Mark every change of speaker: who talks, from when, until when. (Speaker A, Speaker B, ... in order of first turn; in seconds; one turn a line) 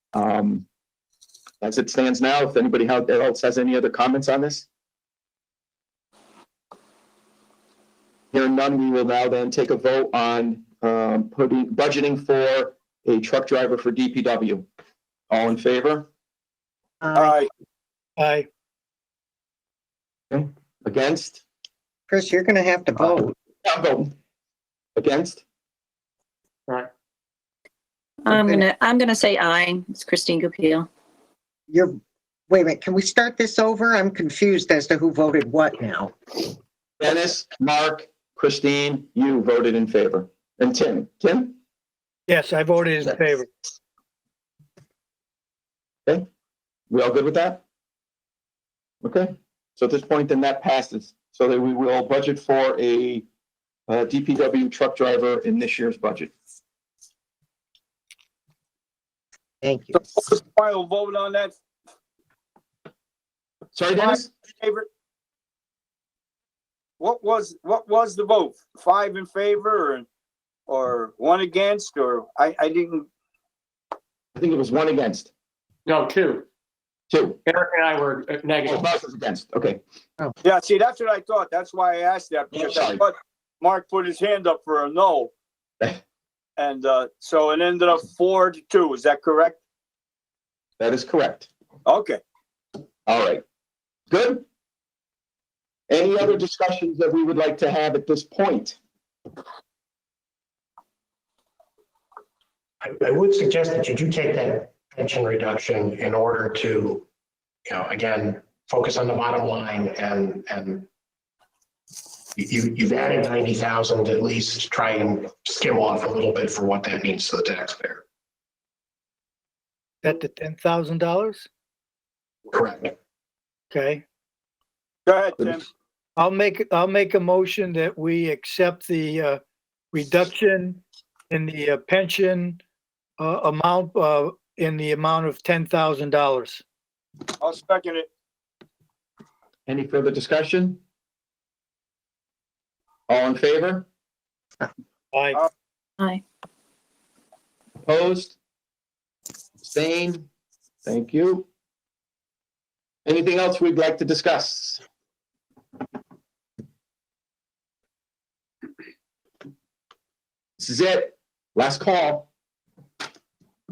Speaker A: 0.1-0.7
Speaker A: 1.6-4.7
Speaker A: 8.3-14.7
Speaker A: 15.3-16.1
Speaker B: 17.0-17.4
Speaker C: 17.1-17.5
Speaker D: 18.2-18.5
Speaker A: 20.3-21.4
Speaker B: 22.1-23.3
Speaker A: 23.6-24.1
Speaker A: 24.9-25.4
Speaker E: 28.2-30.9
Speaker B: 28.3-28.6
Speaker B: 31.7-32.0
Speaker B: 32.5-36.1
Speaker A: 37.0-41.5
Speaker D: 42.3-43.5
Speaker A: 46.9-47.6
Speaker A: 49.0-53.2
Speaker A: 53.9-56.3
Speaker B: 59.6-60.0
Speaker C: 60.1-61.5
Speaker A: 63.7-64.3
Speaker C: 64.0-64.8
Speaker C: 67.0-70.0
Speaker C: 70.7-73.0
Speaker A: 74.3-75.3
Speaker F: 75.8-76.5
Speaker A: 77.1-77.4
Speaker F: 77.4-78.9
Speaker A: 78.7-79.8
Speaker C: 80.4-85.3
Speaker A: 82.5-83.0
Speaker C: 86.6-89.6
Speaker A: 90.8-91.5
Speaker C: 91.8-92.2
Speaker A: 93.0-93.4
Speaker A: 94.1-94.4
Speaker A: 95.9-98.8
Speaker G: 102.8-107.0
Speaker G: 107.7-110.9
Speaker G: 112.3-118.0
Speaker D: 120.0-121.5
Speaker G: 122.5-122.9
Speaker D: 123.7-124.0
Speaker C: 125.0-125.7
Speaker D: 126.2-129.4
Speaker D: 129.9-132.6
Speaker D: 133.2-136.6
Speaker C: 137.4-138.1
Speaker A: 139.7-140.8
Speaker A: 143.1-143.9
Speaker D: 145.1-145.4
Speaker A: 147.8-148.3
Speaker A: 149.6-150.2
Speaker A: 150.8-151.4
Speaker A: 153.0-154.8
Speaker A: 160.6-162.3